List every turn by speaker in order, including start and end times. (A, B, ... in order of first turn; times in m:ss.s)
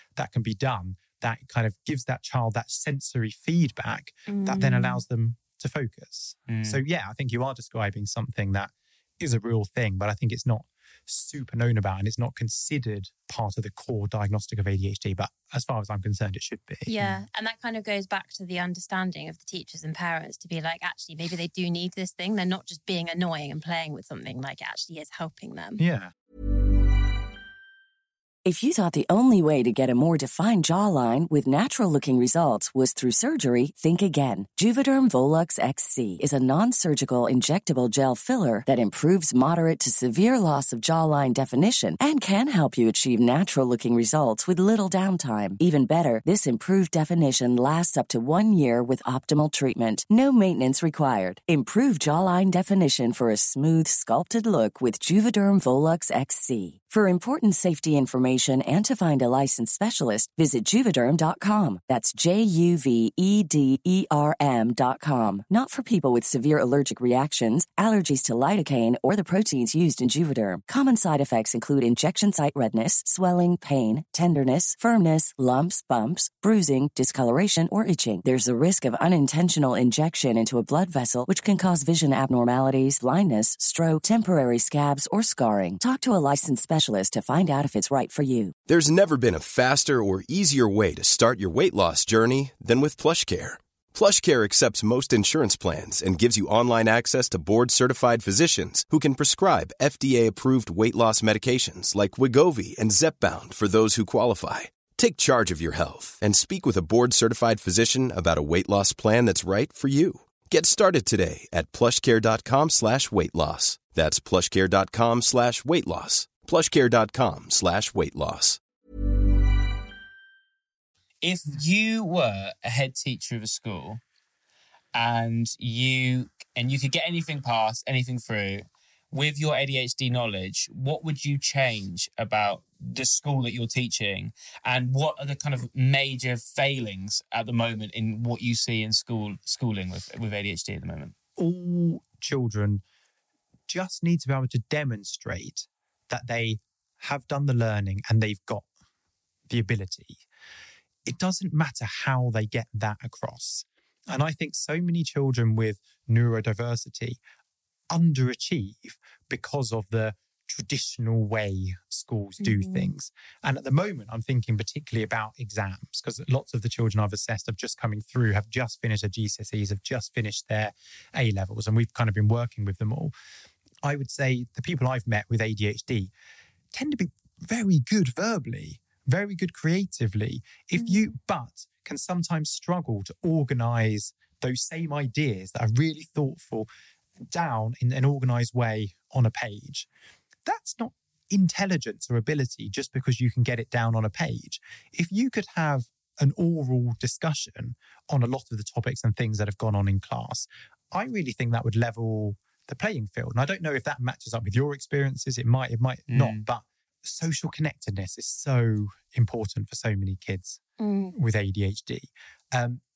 0:00.2-0:17.2 A
0:04.3-0:05.0 B
0:06.5-0:06.8 C
0:16.9-0:25.8 B
0:25.8-0:26.1 A
0:28.4-1:28.5 D
1:28.7-1:58.6 E
2:01.2-2:04.0 C
2:04.9-2:21.2 C
2:21.4-2:22.8 A
2:23.7-2:28.7 A
2:29.5-2:30.2 A
2:31.1-2:37.2 A
2:37.9-2:53.1 A
2:42.4-2:42.9 B
2:53.8-2:56.1 A
2:56.7-3:06.7 A
3:00.8-3:01.1 B
3:07.3-3:09.9 A
3:10.4-3:30.6 A
3:26.1-3:26.4 C
3:30.8-3:31.1 B
3:31.1-3:32.8 A